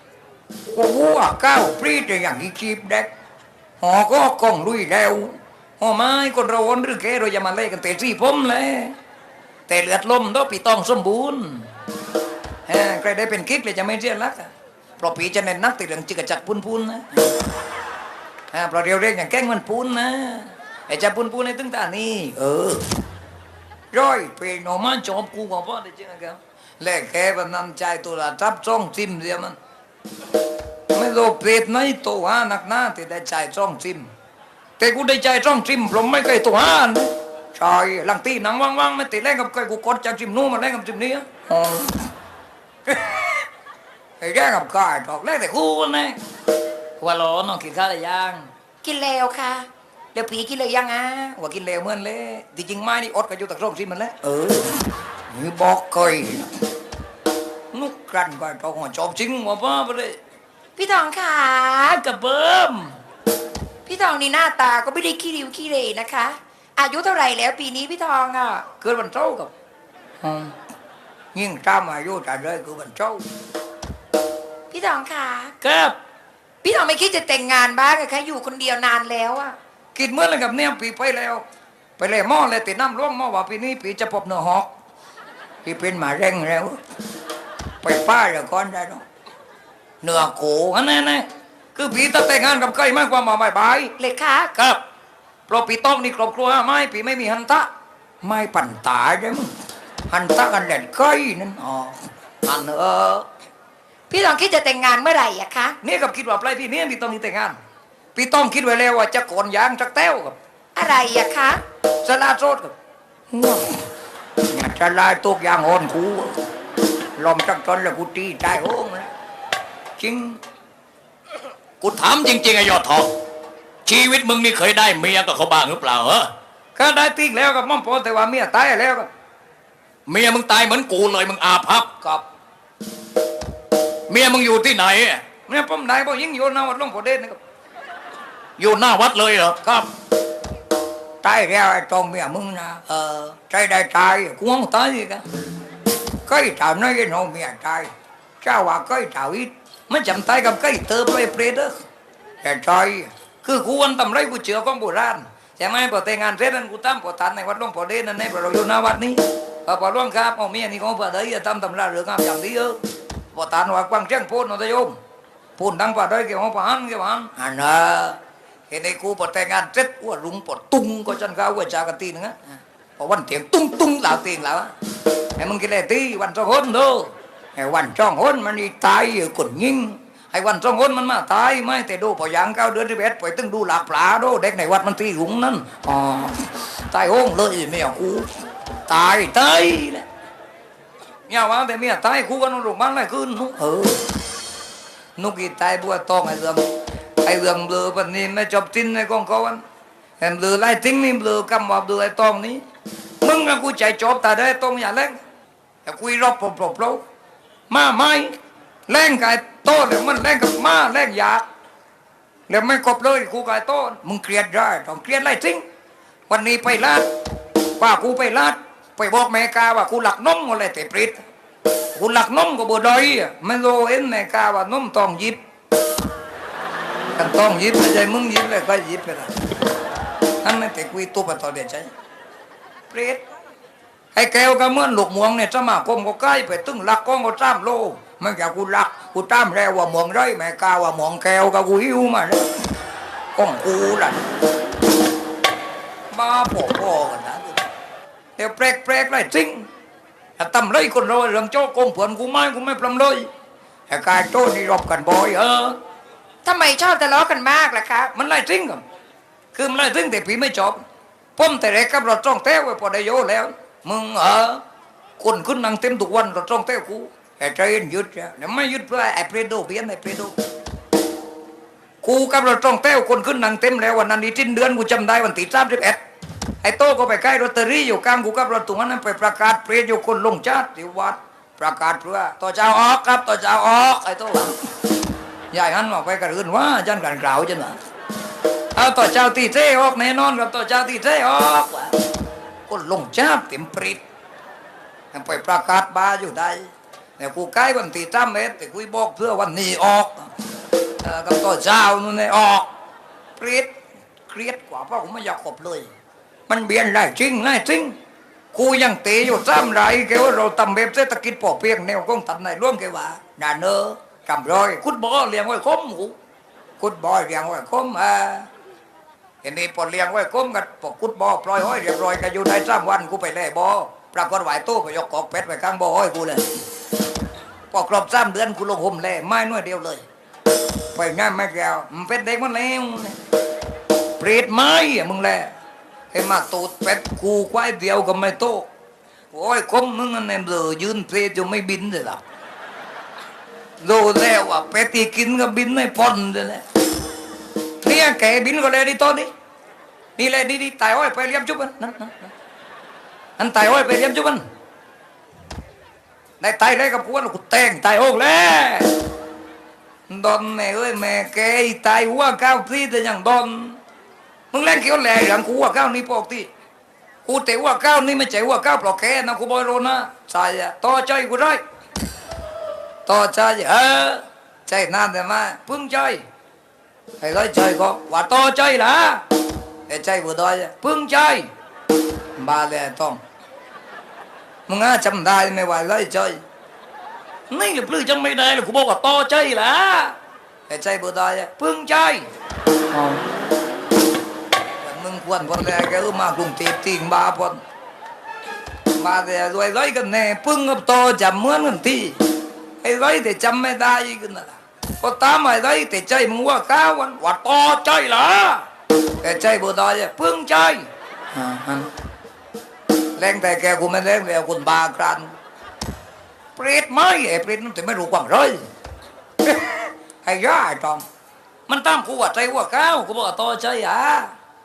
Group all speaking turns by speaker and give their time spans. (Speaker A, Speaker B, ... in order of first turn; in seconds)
Speaker A: 0.7-3.1, 3.8-8.9, 9.7-11.7, 12.7-17.1, 18.5-22.9, 23.9-29.6, 30.9-34.1, 34.8-42.1, 44.2-46.2, 47.0-48.5, 51.0-56.5, 57.7-60.1, 61.9-62.9, 68.7-69.5, 70.2-70.5, 71.3-73.3, 75.6-76.0, 79.9-81.4, 82.0-84.7, 85.6-86.8, 87.8-89.0, 90.0-93.9, 94.5-94.8, 95.5-97.7, 98.2-99.5, 100.1-103.2, 105.8-107.5, 108.1-110.3, 112.0-112.7, 113.3-113.8, 114.4-116.4, 117.2-119.1, 120.0-120.4, 126.7-129.1, 135.4-137.4, 141.2-145.2, 146.2-151.8, 152.4-162.8, 163.3-165.0, 165.6-168.2, 168.7-172.3, 173.0-174.7, 175.4-188.3, 188.9-190.1, 191.3-194.0, 195.2-196.7, 197.2-199.6, 200.2-202.6, 203.2-205.2, 205.8-207.0, 207.7-208.3, 208.9-211.4, 212.5-215.6, 216.3-217.1, 217.8-221.2, 221.9-225.4, 227.1-229.3, 230.4-231.9, 232.9-233.2, 234.1-242.5, 243.3-244.2, 246.1-247.7, 248.4-249.7, 250.4-253.3, 253.9-255.8, 258.1-258.8, 259.5-260.8, 261.4-264.6, 265.2-270.3, 272.0-276.0, 276.6-284.6, 285.5-287.8, 288.8-292.0, 292.7-294.0, 295.1-300.3, 301.0-302.7, 303.4-303.7, 304.3-305.9, 306.5-307.9, 308.5-316.1, 316.8-318.5, 319.4-326.6, 327.7-330.0, 330.9-333.2, 334.2-335.5, 336.1-338.7, 339.3-342.2, 343.8-346.6, 347.8-349.3, 350.2-352.3, 353.4-354.4, 356.4-358.9, 360.1-363.8, 364.5-366.5, 367.2-371.6, 373.1-376.2, 377.2-379.2, 379.9-381.5, 382.4-383.2, 384.7-386.4, 387.5-390.1, 390.7-392.2, 392.9-393.2, 394.8-397.6, 398.9-402.2, 402.8-408.6, 409.2-411.9, 413.2-415.3, 416.6-418.6, 419.5-421.0, 421.7-424.3
Speaker B: 48.8-51.2, 60.8-62.0, 63.9-68.7, 74.7-75.6, 76.6-79.5, 94.0-94.5, 104.1-105.8, 110.8-111.6, 256.4-258.1
Speaker C: 121.8-123.1, 123.8-126.3, 130.1-132.0, 134.1-135.2, 138.6-139.9